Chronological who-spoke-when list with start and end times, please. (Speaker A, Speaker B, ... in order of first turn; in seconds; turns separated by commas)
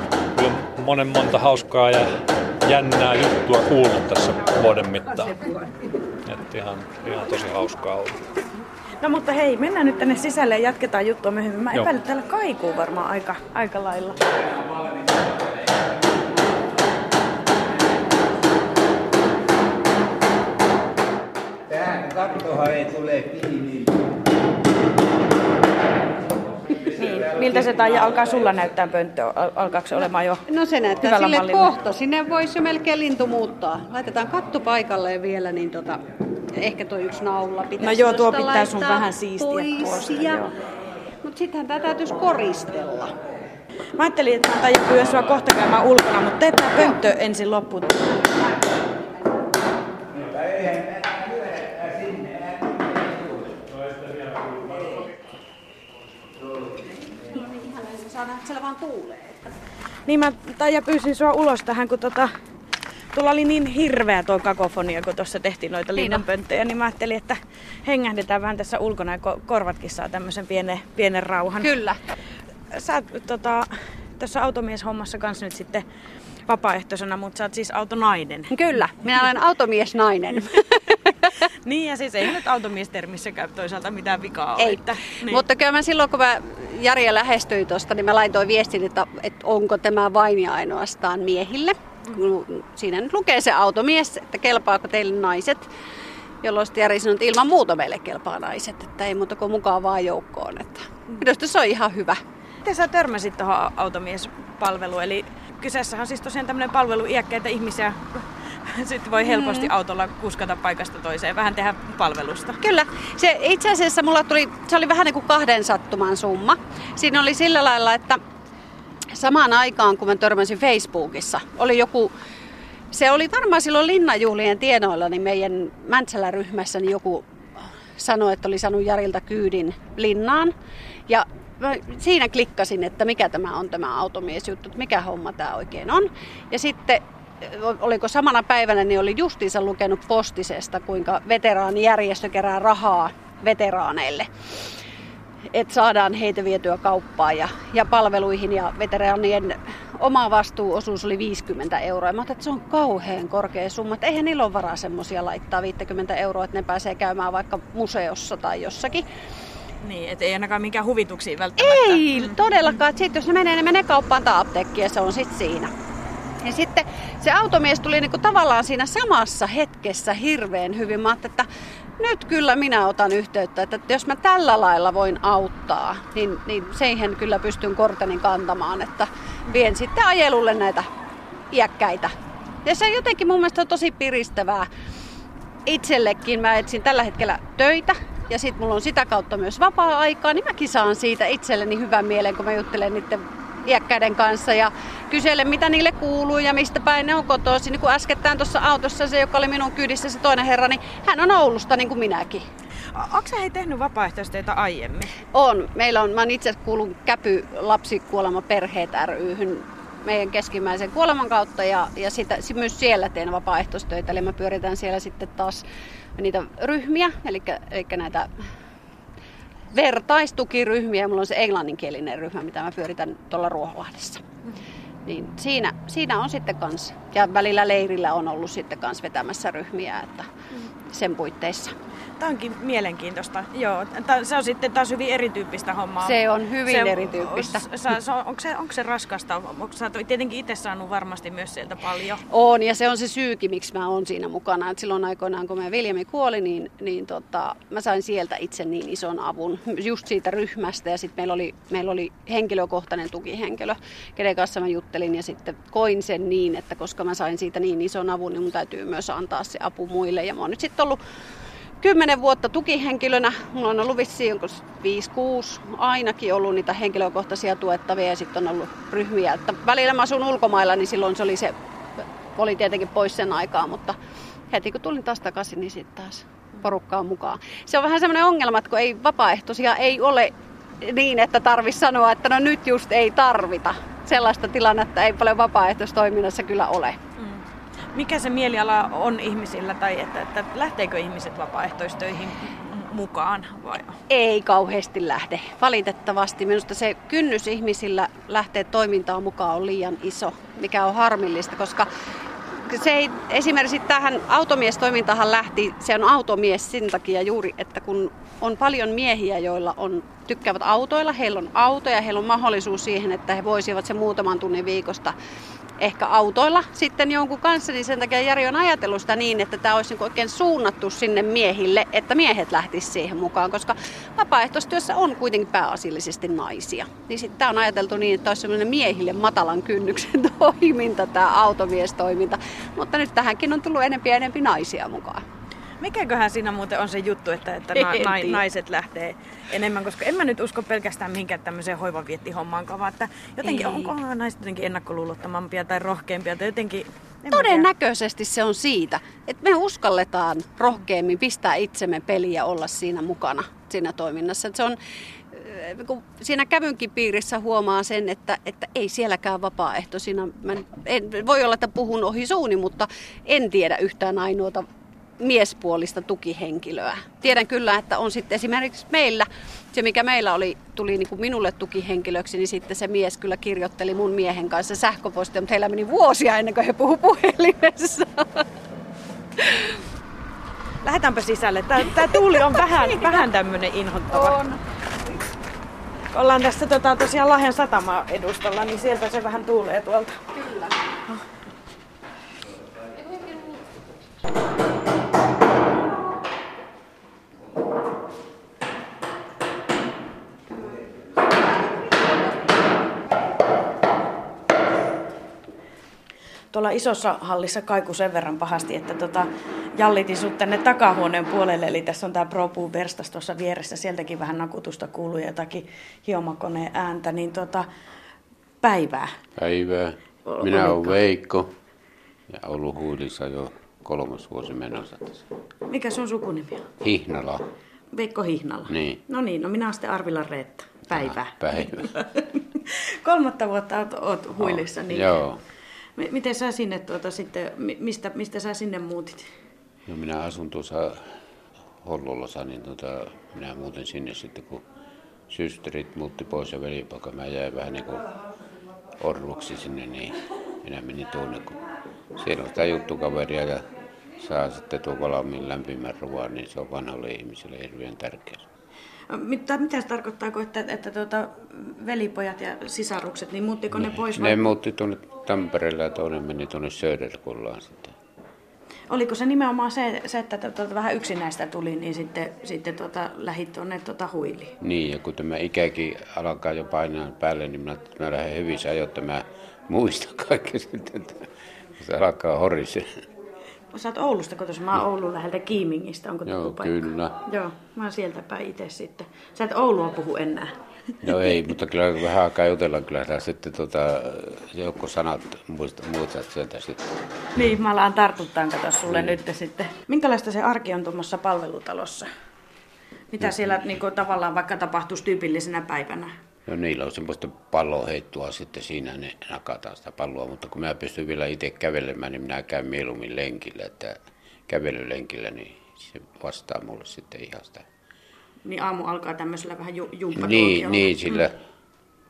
Speaker A: 0.3-5.3, Speaker A: 6.2-8.2, Speaker B: 9.0-14.2, Speaker C: 21.7-23.9, Speaker B: 27.0-30.4, Speaker D: 30.5-36.0, Speaker B: 31.0-31.7, Speaker D: 36.5-40.5, Speaker B: 37.8-40.5, Speaker D: 41.2-43.1, Speaker B: 44.0-48.1, Speaker C: 50.2-52.4, Speaker D: 57.3-59.4, Speaker B: 60.1-62.3, Speaker B: 63.1-71.7, Speaker D: 66.0-66.2, Speaker D: 71.6-72.0, Speaker B: 72.7-75.8, Speaker B: 76.5-78.5, Speaker D: 78.5-80.9, Speaker B: 81.6-85.4, Speaker D: 84.6-95.7, Speaker D: 96.4-102.2, Speaker B: 102.6-112.6, Speaker D: 109.2-109.7, Speaker D: 112.6-118.2, Speaker D: 119.2-122.1, Speaker D: 122.9-127.3, Speaker D: 128.0-130.5, Speaker D: 131.1-144.3, Speaker D: 145.5-159.1, Speaker B: 159.8-162.4, Speaker D: 161.6-165.7, Speaker D: 166.4-171.5, Speaker D: 172.0-180.9, Speaker D: 181.5-182.1, Speaker D: 182.6-184.7, Speaker D: 185.7-202.4, Speaker B: 202.9-205.1, Speaker D: 205.3-215.6, Speaker D: 216.2-218.3, Speaker D: 219.7-224.2, Speaker D: 225.1-230.3, Speaker D: 230.9-231.7, Speaker B: 232.2-242.2, Speaker D: 236.0-237.6, Speaker D: 242.3-261.0, Speaker D: 261.8-273.9, Speaker D: 274.5-287.0, Speaker B: 287.9-294.0, Speaker D: 294.1-301.9, Speaker D: 302.7-315.1, Speaker D: 315.8-335.2, Speaker B: 335.8-347.7, Speaker D: 337.7-338.4, Speaker D: 343.4-343.9, Speaker D: 347.3-354.8, Speaker D: 355.3-364.6, Speaker D: 365.2-378.4, Speaker D: 379.4-379.7, Speaker B: 380.8-384.4, Speaker D: 382.5-383.2, Speaker D: 384.1-384.6, Speaker B: 386.1-390.2, Speaker D: 390.3-390.8, Speaker B: 406.5-417.7, Speaker B: 418.6-419.1, Speaker E: 419.4-421.5, Speaker B: 420.2-420.9, Speaker E: 422.3-425.2, Speaker B: 425.7-426.7, Speaker E: 426.8-427.4, Speaker B: 427.9-435.1, Speaker E: 428.7-429.0, Speaker E: 430.9-431.9, Speaker E: 434.4-435.4, Speaker B: 436.0-439.3, Speaker E: 439.9-441.2, Speaker E: 441.8-444.6, Speaker E: 445.3-448.1, Speaker E: 449.0-451.6, Speaker E: 452.1-453.7, Speaker E: 454.2-458.5, Speaker B: 459.1-464.5, Speaker E: 463.7-467.9, Speaker B: 468.9-474.5, Speaker E: 474.6-483.0, Speaker B: 483.7-490.5, Speaker E: 486.2-487.1, Speaker E: 491.0-496.9, Speaker B: 497.4-502.1, Speaker E: 498.9-499.2, Speaker B: 503.1-506.1, Speaker E: 506.4-514.0, Speaker E: 514.5-517.6, Speaker B: 518.4-521.3, Speaker E: 520.1-521.4